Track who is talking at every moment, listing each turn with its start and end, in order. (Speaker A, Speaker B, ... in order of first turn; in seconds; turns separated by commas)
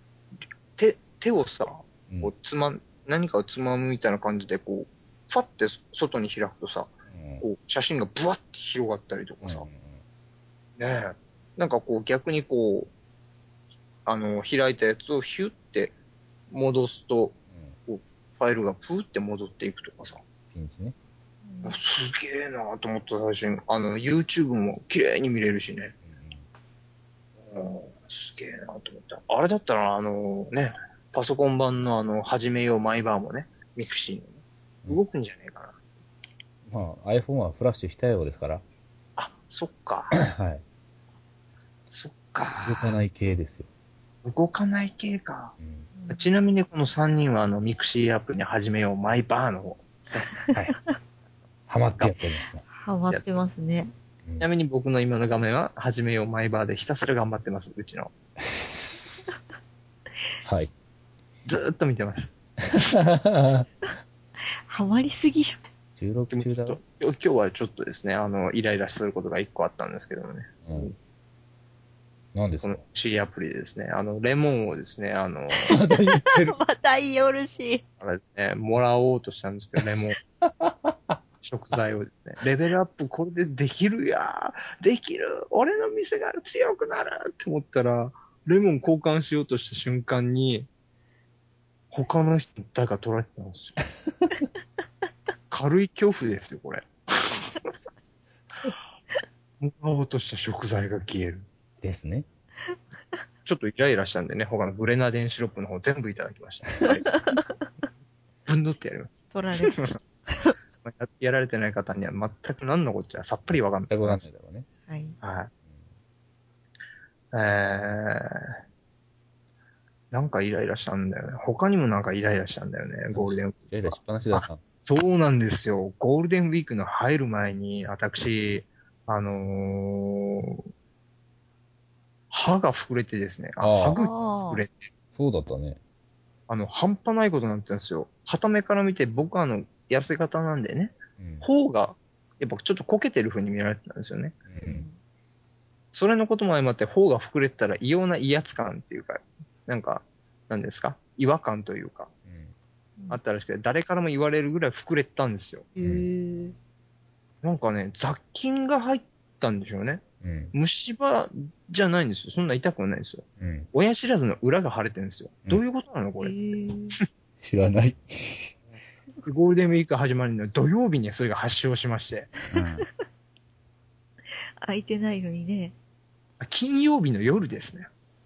Speaker A: 0.8-9.7, Speaker B: 7.1-7.4, Speaker B: 9.4-10.0, Speaker A: 10.8-12.9, Speaker A: 14.1-15.9, Speaker A: 16.5-17.4, Speaker A: 17.9-20.2, Speaker B: 20.5-20.9, Speaker C: 21.4-21.8, Speaker A: 21.6-25.9, Speaker B: 26.1-26.4, Speaker A: 27.5-35.8, Speaker B: 36.7-38.6, Speaker A: 39.2-40.2, Speaker B: 40.3-40.6, Speaker A: 41.9-43.0, Speaker B: 42.6-43.7, Speaker A: 44.2-45.5, Speaker B: 45.6-45.9, Speaker C: 46.0-46.3, Speaker A: 46.1-50.3, Speaker B: 51.7-52.6, Speaker C: 52.7-53.9, Speaker A: 53.1-53.4, Speaker A: 54.4-58.1, Speaker B: 58.4-59.3, Speaker B: 60.5-60.7, Speaker A: 61.5-63.0, Speaker B: 63.2-63.7, Speaker C: 64.7-65.6, Speaker B: 66.0-66.8, Speaker A: 66.3-71.0, Speaker B: 72.3-72.8, Speaker A: 72.6-75.8, Speaker B: 75.6-76.6, Speaker C: 75.9-77.8, Speaker A: 78.0-80.2, Speaker B: 80.4-81.2, Speaker A: 81.4-90.7, Speaker A: 91.9-93.8, Speaker A: 95.5-97.7, Speaker A: 99.6-101.5, Speaker B: 101.8-102.3, Speaker A: 103.5-107.1, Speaker C: 106.9-107.5, Speaker A: 108.5-110.0, Speaker C: 109.3-110.5, Speaker A: 110.8-114.3, Speaker B: 113.9-114.7, Speaker C: 114.9-115.2, Speaker A: 115.2-115.5, Speaker A: 117.3-118.5, Speaker A: 120.1-130.6, Speaker B: 123.1-124.6, Speaker A: 132.3-134.9, Speaker B: 133.6-134.0, Speaker C: 134.0-134.6, Speaker B: 135.2-135.8, Speaker A: 136.5-144.4, Speaker B: 141.2-141.5, Speaker B: 144.5-144.8, Speaker C: 144.6-145.0, Speaker A: 145.9-152.1, Speaker A: 153.1-155.7, Speaker C: 155.8-156.6, Speaker B: 155.8-156.1, Speaker A: 157.4-166.4, Speaker B: 160.2-160.5, Speaker B: 163.4-163.7, Speaker C: 166.2-167.0, Speaker B: 167.4-168.5, Speaker A: 169.2-172.3, Speaker B: 172.5-172.9, Speaker C: 174.6-175.7, Speaker A: 176.4-177.9